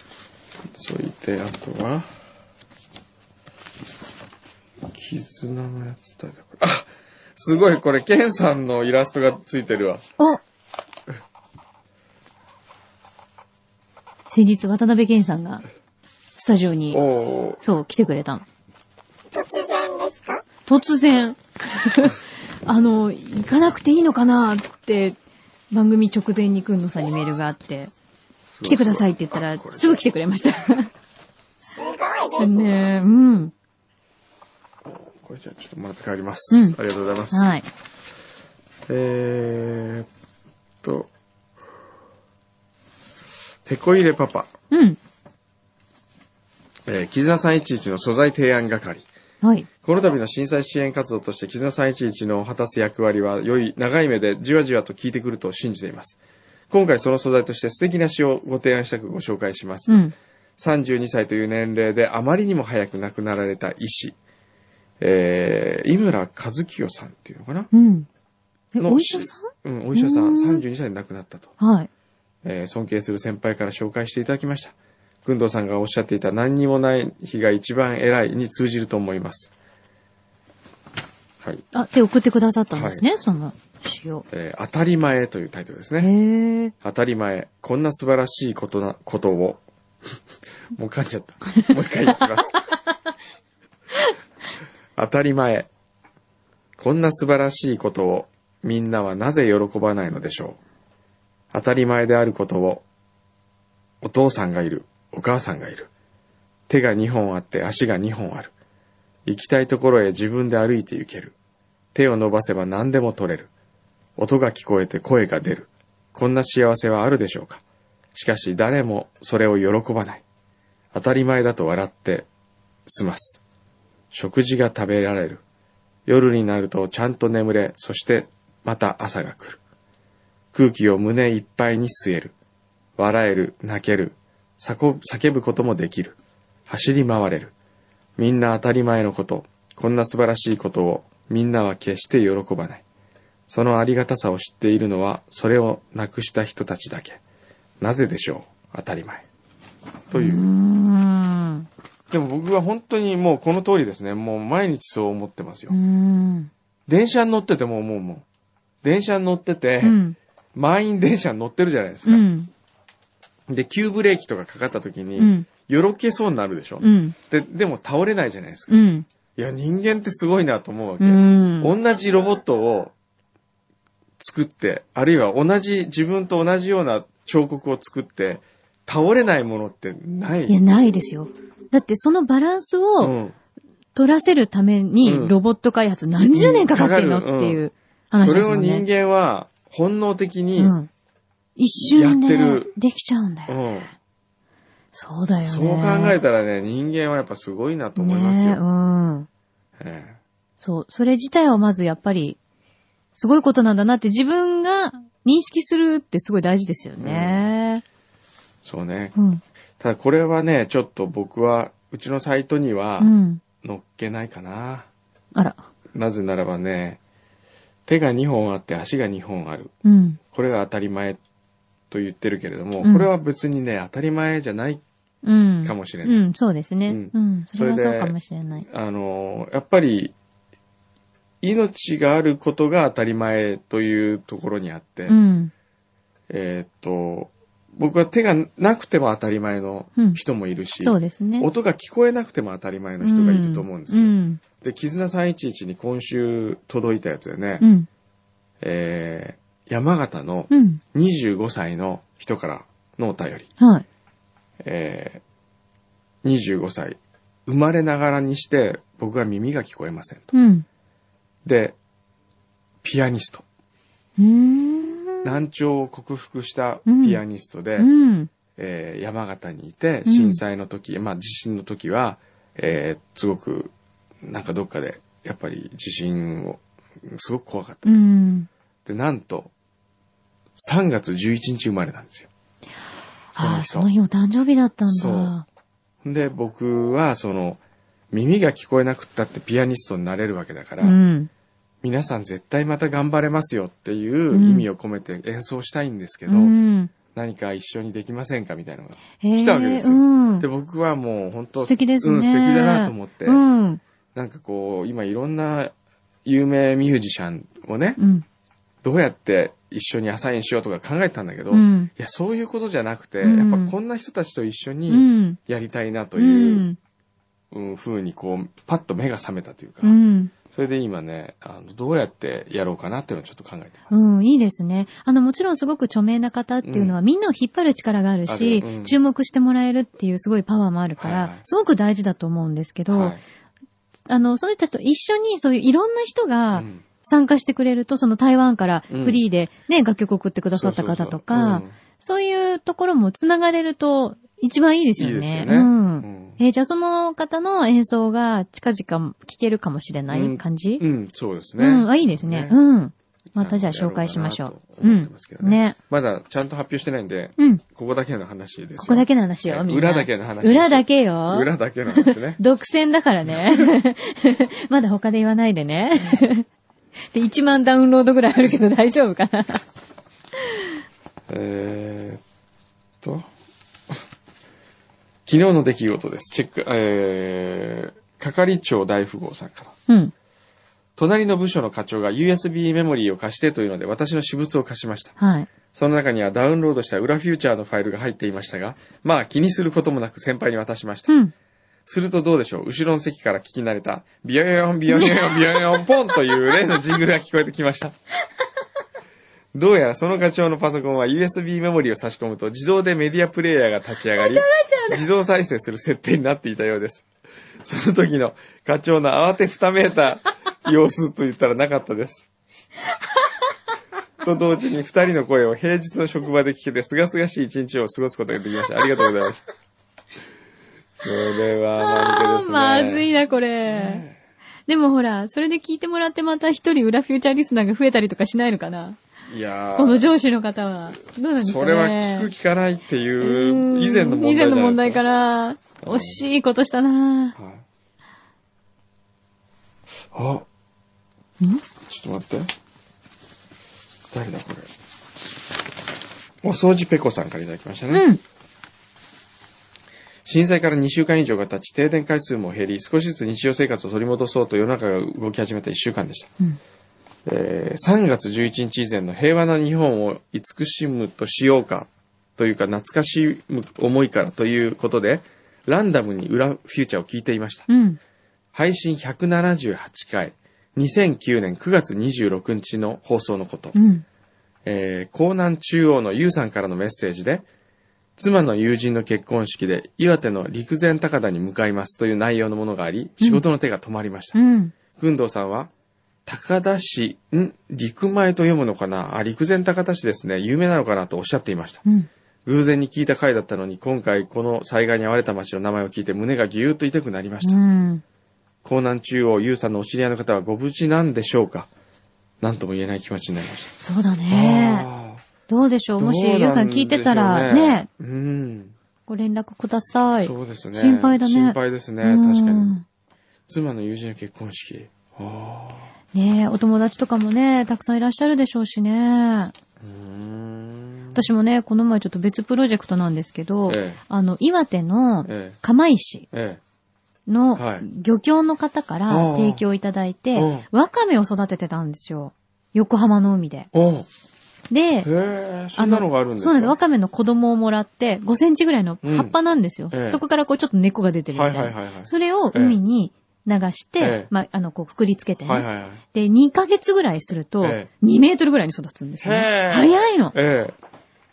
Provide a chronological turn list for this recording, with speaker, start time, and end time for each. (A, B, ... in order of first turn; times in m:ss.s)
0:00.7-0:02.1 A
0:04.9-0:10.0 A
0:14.3-0:15.6 B
0:16.4-0:17.0 B
0:16.9-0:17.6 A
0:17.6-0:18.4 B
0:19.3-0:20.5 C
0:20.7-0:25.2 B
0:25.7-0:27.9 B
0:28.6-0:30.0 A
0:28.6-0:30.9 B
0:31.7-0:32.8 C
0:32.4-0:33.5 B
0:34.9-0:37.5 A
0:36.5-0:36.8 B
0:37.3-0:37.6 B
0:38.9-0:40.1 A
0:40.8-0:41.1 A
0:43.7-0:44.5 A
0:44.7-0:45.0 B
0:46.9-0:49.1 A
0:49.4-0:49.7 B
0:49.8-0:56.2 A
0:56.7-1:00.0 A
0:59.9-1:00.1 B
1:00.6-1:04.2 A
1:05.0-1:07.7 A
1:07.7-1:08.1 B
1:08.7-1:10.6 B
1:08.8-1:11.6 A
1:11.6-1:11.9 B
1:12.4-1:14.7 A
1:15.2-1:19.5 A
1:21.7-1:24.2 B
1:22.7-1:23.0 A
1:24.3-1:26.1 A
1:26.0-1:26.7 B
1:26.8-1:29.6 A
1:30.8-1:32.6 A
1:35.0-1:35.7 A
1:36.8-1:40.6 A
1:41.5-1:42.8 A
1:44.0-1:45.9 A
1:46.7-1:48.5 A
1:49.3-1:51.3 A
1:51.9-1:53.5 A
1:54.2-1:57.6 A
1:58.1-2:00.2 A
2:00.9-2:02.3 A
2:02.9-2:03.4 A
2:04.1-2:05.4 A
2:06.1-2:09.6 A
2:10.5-2:12.3 A
2:13.0-2:16.2 A
2:16.7-2:17.5 A
2:18.2-2:22.8 A
2:23.5-2:27.2 A
2:27.8-2:29.2 A
2:30.1-2:30.5 A
2:30.1-2:31.7 B
2:32.1-2:35.8 A
2:35.7-2:36.5 B
2:36.9-2:38.2 A
2:38.8-2:40.0 A
2:39.8-2:40.2 B
2:40.6-2:42.3 A
2:42.1-2:42.5 B
2:43.5-2:48.7 A
2:45.2-2:45.5 B
2:46.8-2:47.2 B
2:48.7-2:49.1 B
2:49.4-2:52.9 A
2:51.0-2:51.8 B
2:54.2-3:00.6 A
3:00.5-3:03.2 B
3:03.0-3:03.4 A
3:04.0-3:08.8 B
3:05.0-3:05.4 A
3:06.3-3:07.6 A
3:08.2-3:10.8 A
3:10.6-3:10.9 B
3:11.6-3:13.6 B
3:11.9-3:12.7 A
3:13.5-3:13.9 A
3:14.9-3:16.2 B
3:15.5-3:18.6 A
3:18.0-3:19.3 B
3:19.8-3:20.2 A
3:20.6-3:22.4 B
3:23.2-3:27.8 B
3:27.0-3:27.4 A
3:28.6-3:29.2 A
3:29.2-3:29.4 B
3:29.8-3:34.9 A
3:33.0-3:33.4 B
3:35.4-3:35.6 B
3:35.9-3:37.0 A
3:37.9-3:39.7 A
3:39.8-3:40.2 B
3:40.3-3:41.2 A
3:41.9-3:44.8 A
3:42.8-3:43.1 B
3:45.2-3:48.7 B
3:45.6-3:46.2 A
3:46.9-3:48.2 A
3:48.7-3:50.1 A
3:51.4-3:55.2 A
3:55.1-3:55.5 B
3:56.3-4:07.7 A
4:00.8-4:01.5 B
4:03.0-4:04.4 B
4:07.6-4:07.9 B
4:08.6-4:13.5 A
4:10.5-4:10.8 B
4:13.6-4:13.8 B
4:14.6-4:15.2 A
4:16.2-4:20.3 A
4:20.3-4:20.6 B
4:21.4-4:21.8 A
4:22.8-4:23.4 A
4:24.2-4:25.3 B
4:25.2-4:27.9 A
4:26.9-4:27.2 B
4:27.8-4:28.3 B
4:28.6-4:33.7 A
4:30.1-4:30.4 B
4:34.2-4:38.0 A
4:37.8-4:38.5 B
4:38.9-4:39.5 A
4:40.6-4:42.3 A
4:43.4-4:45.4 B
4:43.4-4:43.9 A
4:44.9-4:45.3 A
4:46.0-4:47.6 A
4:48.1-4:51.0 A
4:50.8-4:51.3 B
4:51.8-4:56.5 A
4:54.3-4:54.7 B
4:56.3-4:56.9 B
4:57.1-5:03.4 A
4:59.2-5:00.5 B
5:01.6-5:03.8 B
5:04.2-5:05.7 A
5:06.2-5:08.0 A
5:08.0-5:08.2 B
5:08.8-5:16.7 A
5:11.5-5:11.9 B
5:13.2-5:13.7 B
5:14.9-5:15.4 B
5:16.2-5:16.8 B
5:17.5-5:20.0 A
5:19.8-5:20.3 B
5:20.5-5:23.9 A
5:23.9-5:33.2 B
5:26.6-5:26.9 A
5:28.3-5:29.0 A
5:31.0-5:31.4 A
5:32.9-5:33.2 A
5:34.1-5:50.8 B
5:36.5-5:36.8 A
5:38.9-5:39.2 A
5:40.6-5:41.7 A
5:45.0-5:46.4 A
5:50.1-5:52.6 A
5:51.6-5:55.8 B
5:53.4-6:02.4 A
5:58.8-6:06.5 B
6:03.3-6:03.7 A
6:07.1-6:09.6 B
6:11.3-6:12.2 A
6:15.3-6:19.8 A
6:19.9-6:20.1 B
6:21.0-6:25.2 A
6:25.2-6:25.5 B
6:25.7-6:31.1 A
6:31.9-6:38.0 A
6:34.9-6:35.9 B
6:39.5-6:47.0 A
6:44.2-6:45.0 B
6:47.6-6:52.2 A
6:54.2-6:59.5 A
7:01.0-7:03.1 A
7:01.8-7:04.0 B
7:03.7-7:04.2 A
7:04.7-7:09.0 B
7:09.3-7:10.1 A
7:09.8-7:12.3 B
7:11.4-7:15.0 A
7:13.2-7:17.4 B
7:15.8-7:16.2 A
7:17.4-7:17.6 A
7:20.1-7:20.4 A
7:21.9-7:22.5 A
7:24.1-7:24.7 A
7:26.4-7:28.0 A
7:27.9-7:28.2 B
7:30.3-7:36.3 A
7:37.3-7:47.7 A
7:47.7-7:48.0 B
7:48.5-7:53.8 A
7:53.7-7:54.0 B
7:54.7-7:57.5 A
7:58.2-8:04.4 A
8:04.4-8:04.7 B
8:04.9-8:05.7 A
8:06.3-8:11.8 A
8:12.5-8:17.6 A
8:17.4-8:18.0 B
8:18.6-8:21.7 A
8:22.4-8:23.8 A
8:23.8-8:24.9 B
8:24.3-8:25.2 A
8:25.5-8:27.9 B
8:26.0-8:28.7 A
8:29.1-8:32.8 B
8:30.2-8:32.8 A
8:33.5-8:35.9 A
8:36.1-8:39.5 B
8:39.8-8:41.3 A
8:41.1-8:46.3 B
8:43.7-8:44.0 A
8:45.3-8:45.6 A
8:46.3-8:46.6 A
8:47.3-8:53.7 B
8:47.6-8:47.8 A
8:49.1-8:49.6 A
8:50.4-8:50.7 A
8:53.7-8:54.1 A
8:54.7-8:55.1 B
8:55.0-8:56.8 A
8:55.8-9:10.4 B
8:59.0-8:59.3 A
8:59.9-9:00.2 A
9:01.3-9:02.8 A
9:04.0-9:04.3 A
9:05.5-9:06.0 A
9:07.6-9:07.9 A
9:09.2-9:10.8 A